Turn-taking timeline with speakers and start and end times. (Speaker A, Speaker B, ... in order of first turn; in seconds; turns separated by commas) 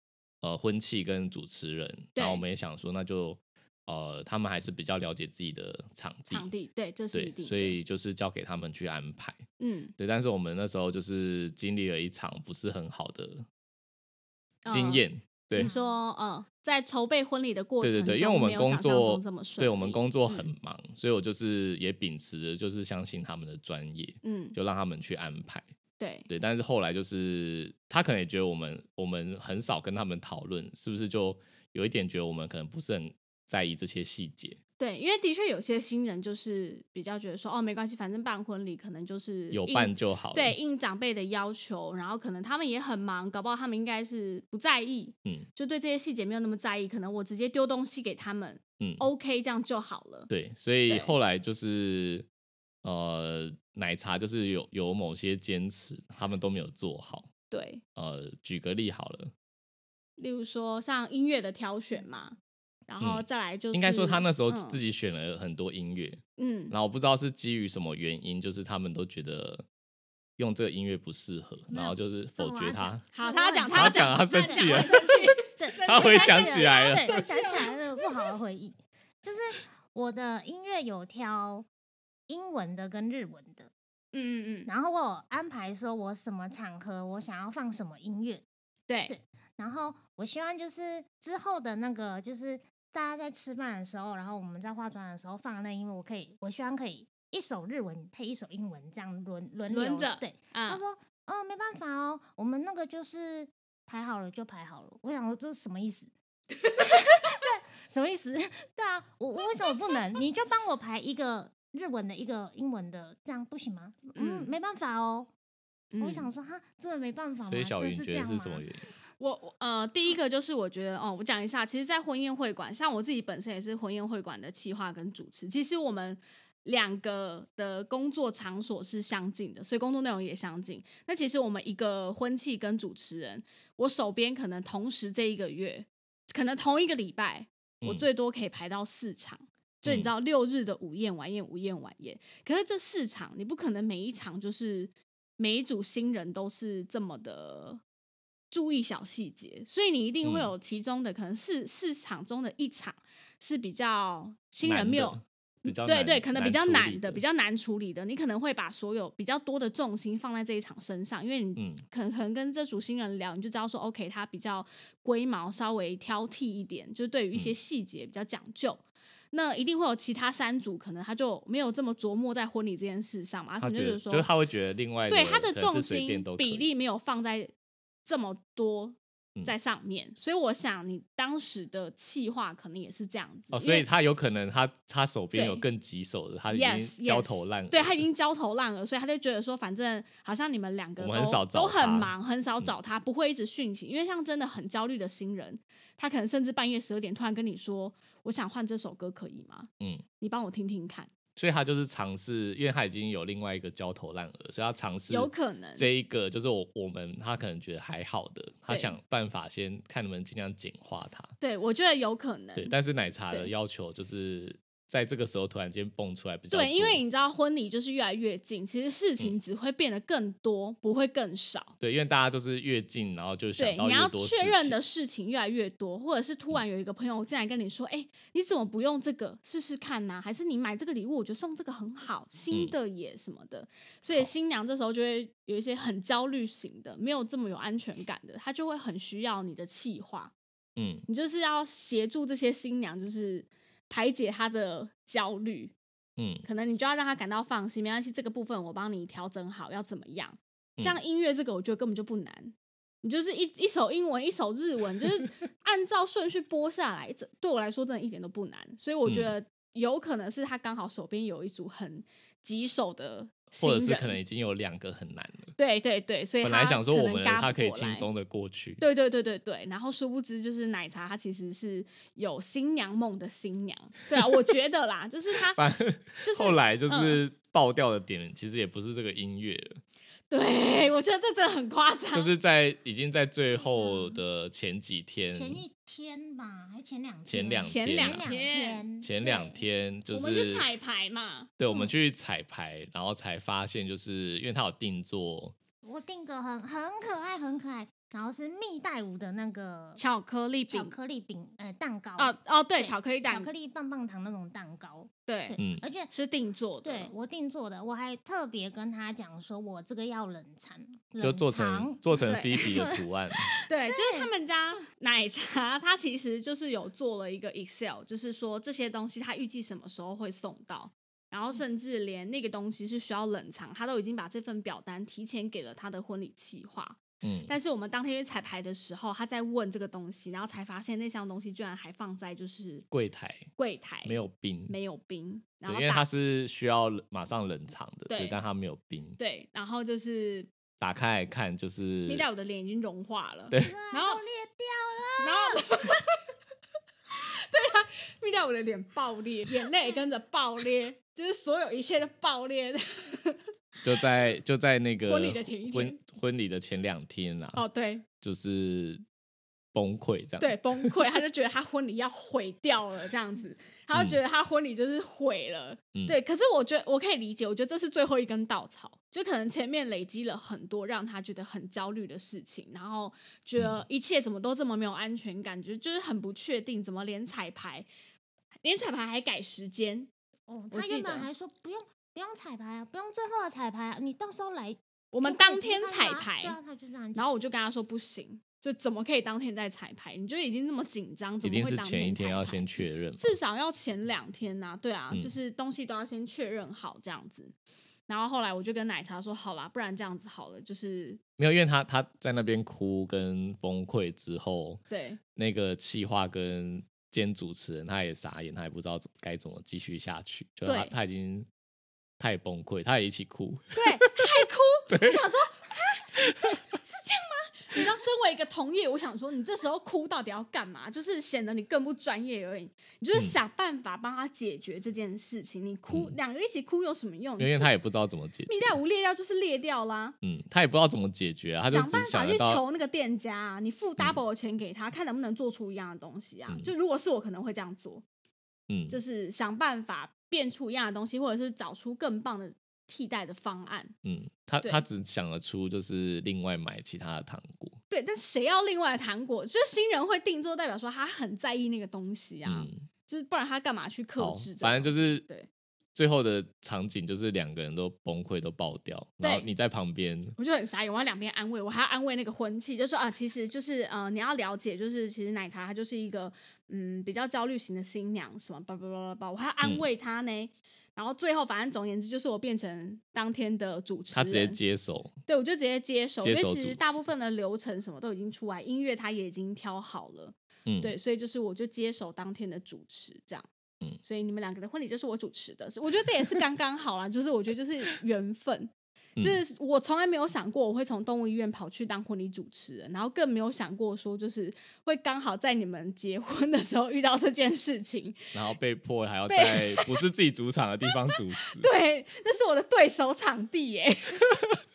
Speaker A: 0.4-6.5, Speaker B: 2.1-2.4, Speaker B: 6.3-7.8, Speaker A: 7.1-9.4, Speaker B: 9.6-9.9, Speaker A: 10.0-13.4, Speaker B: 14.6-15.0, Speaker A: 14.7-15.7, Speaker B: 15.5-20.5, Speaker A: 17.8-25.6, Speaker B: 24.2-24.6, Speaker B: 26.0-26.3, Speaker A: 26.3-34.6, Speaker B: 34.8-50.3, Speaker A: 39.5-40.5, Speaker A: 48.8-49.0, Speaker A: 50.3-52.3, Speaker B: 50.9-51.1, Speaker A: 52.8-57.3, Speaker B: 57.5-57.8, Speaker A: 58.0-59.3, Speaker B: 60.2-62.4, Speaker B: 62.9-64.8, Speaker A: 63.0-69.6, Speaker B: 66.4-66.7, Speaker A: 70.4-73.0, Speaker C: 71.7-81.7, Speaker B: 73.1-78.2, Speaker A: 73.7-75.1, Speaker A: 75.8-77.3, Speaker C: 82.3-83.7, Speaker B: 84.1-84.7, Speaker C: 84.7-88.4, Speaker B: 88.9-89.1, Speaker C: 89.1-106.1, Speaker B: 99.7-100.8, Speaker C: 106.7-115.3, Speaker B: 114.1-114.5, Speaker B: 115.9-116.3, Speaker C: 116.0-118.6, Speaker A: 117.5-118.8, Speaker B: 119.2-147.8, Speaker B: 148.5-174.3, Speaker A: 150.2-150.5, Speaker A: 154.6-157.2, Speaker A: 161.6-161.8, Speaker A: 173.6-176.7, Speaker B: 175.1-177.5, Speaker B: 178.1-183.8, Speaker A: 183.5-188.0, Speaker B: 185.3-185.6, Speaker B: 186.5-201.1, Speaker A: 191.0-192.7, Speaker A: 201.3-211.3, Speaker B: 205.1-205.9, Speaker B: 208.7-208.9, Speaker B: 211.4-212.7, Speaker A: 212.6-217.0, Speaker B: 216.5-221.7, Speaker A: 221.8-224.8, Speaker B: 223.6-240.3, Speaker A: 240.8-241.1, Speaker B: 241.1-245.7, Speaker A: 246.2-246.4, Speaker B: 246.4-264.2, Speaker A: 259.1-259.3, Speaker A: 263.6-265.5, Speaker B: 265.6-268.1, Speaker A: 266.4-268.8, Speaker B: 268.8-275.6, Speaker A: 275.5-279.8, Speaker B: 276.2-277.2, Speaker B: 280.3-282.3, Speaker A: 282.1-285.6, Speaker C: 283.8-284.1, Speaker C: 285.3-289.5, Speaker A: 287.3-288.3, Speaker B: 287.5-288.8, Speaker A: 289.0-290.6, Speaker B: 290.1-291.9, Speaker A: 291.6-295.6, Speaker C: 295.8-300.0, Speaker B: 300.0-300.9, Speaker C: 300.7-306.1, Speaker B: 302.2-303.5, Speaker B: 305.3-305.6, Speaker A: 305.6-305.8, Speaker B: 306.1-307.1, Speaker C: 306.8-314.3, Speaker A: 311.2-313.5, Speaker B: 312.2-312.6, Speaker B: 313.7-332.9, Speaker A: 327.2-327.5, Speaker A: 332.9-333.5, Speaker B: 333.6-336.1, Speaker A: 334.0-334.7, Speaker A: 335.6-339.2, Speaker B: 338.1-338.4, Speaker B: 339.2-340.5, Speaker A: 340.8-342.2, Speaker B: 342.1-344.2, Speaker C: 343.6-345.6, Speaker B: 345.2-346.2, Speaker B: 347.5-353.4, Speaker A: 353.8-357.6, Speaker B: 355.0-356.0, Speaker B: 357.5-358.0, Speaker A: 358.2-359.0, Speaker A: 359.7-360.9, Speaker B: 360.4-377.9, Speaker B: 378.6-380.1, Speaker C: 380.5-387.2, Speaker B: 380.7-381.3, Speaker B: 385.1-386.6, Speaker B: 387.1-397.5, Speaker A: 391.4-393.3, Speaker B: 398.1-401.2, Speaker A: 401.4-404.8, Speaker B: 404.9-405.2, Speaker A: 405.3-411.5, Speaker B: 410.6-410.9, Speaker A: 412.2-414.1, Speaker B: 413.7-427.7, Speaker A: 414.9-415.2, Speaker A: 416.1-416.6, Speaker A: 425.9-426.1, Speaker A: 427.4-428.7, Speaker B: 428.5-430.1, Speaker A: 430.2-432.6, Speaker B: 431.6-438.0, Speaker A: 438.7-439.0, Speaker B: 438.9-443.9, Speaker A: 444.0-447.8, Speaker B: 447.9-455.5, Speaker A: 452.4-452.8, Speaker A: 454.2-455.2, Speaker A: 455.9-460.3, Speaker B: 459.2-459.5, Speaker B: 460.4-474.6, Speaker A: 474.1-475.1, Speaker B: 475.3-483.4, Speaker A: 476.2-477.0, Speaker A: 480.6-480.9, Speaker B: 484.0-498.3, Speaker A: 498.3-501.7, Speaker B: 499.3-500.0, Speaker B: 501.5-504.5